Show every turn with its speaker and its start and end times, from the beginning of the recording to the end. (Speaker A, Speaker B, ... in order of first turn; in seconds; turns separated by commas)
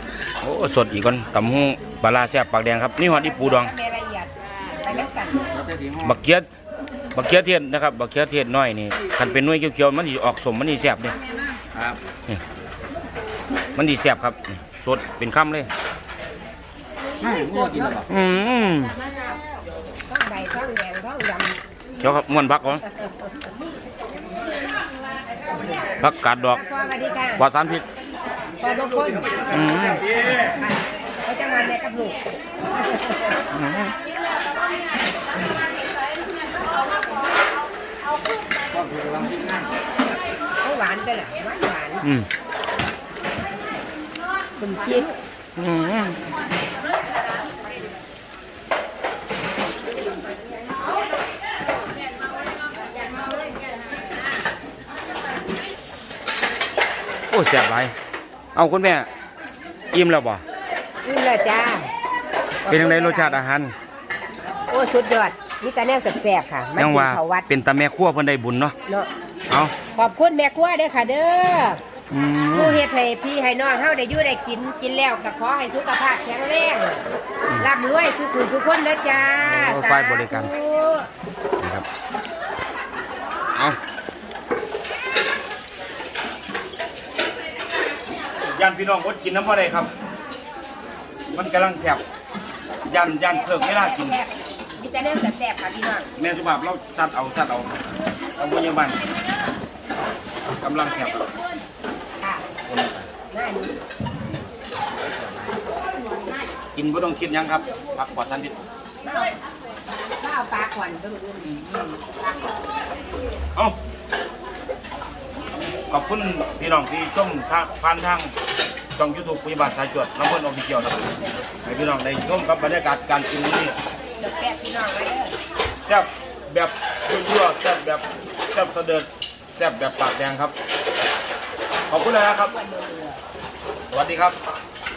Speaker A: 0.4-3.7, Speaker B: 3.1-5.5, Speaker C: 5.5-6.2, Speaker A: 6.0-6.5, Speaker A: 7.1-11.2, Speaker A: 13.7-15.7, Speaker C: 17.2-18.1, Speaker A: 18.1-19.0, Speaker B: 20.1-21.6, Speaker A: 22.0-22.8, Speaker A: 26.0-26.6, Speaker B: 26.5-27.4, Speaker A: 27.4-27.8, Speaker B: 28.6-32.2, Speaker A: 29.5-30.0, Speaker A: 33.5-33.9, Speaker C: 38.8-39.4, Speaker B: 40.6-42.0, Speaker B: 44.6-45.2, Speaker A: 45.5-46.2, Speaker A: 57.3-57.9, Speaker A: 58.5-59.1, Speaker A: 59.9-60.4, Speaker B: 61.0-61.9, Speaker B: 62.6-63.4, Speaker A: 62.7-63.7, Speaker B: 64.7-67.5, Speaker A: 66.8-68.7, Speaker A: 69.5-69.7, Speaker B: 69.9-71.8, Speaker A: 72.1-72.8, Speaker B: 72.5-81.1, Speaker A: 79.3-80.5, Speaker A: 81.6-81.8, Speaker A: 88.4-89.9, Speaker A: 91.3-92.0, Speaker A: 92.8-94.2, Speaker B: 93.2-96.1, Speaker A: 96.2-97.8, Speaker A: 98.3-99.0, Speaker A: 100.6-101.2, Speaker B: 102.2-102.4, Speaker A: 102.7-103.1, Speaker B: 103.3-103.7, Speaker A: 106.7-108.5, Speaker B: 109.0-109.3, Speaker B: 110.2-111.5, Speaker A: 111.4-112.0, Speaker A: 115.9-118.3, Speaker A: 119.0-123.8, Speaker B: 124.2-125.4, Speaker A: 125.9-130.5, Speaker A: 131.9-132.5, Speaker B: 132.4-133.2, Speaker A: 133.9-134.3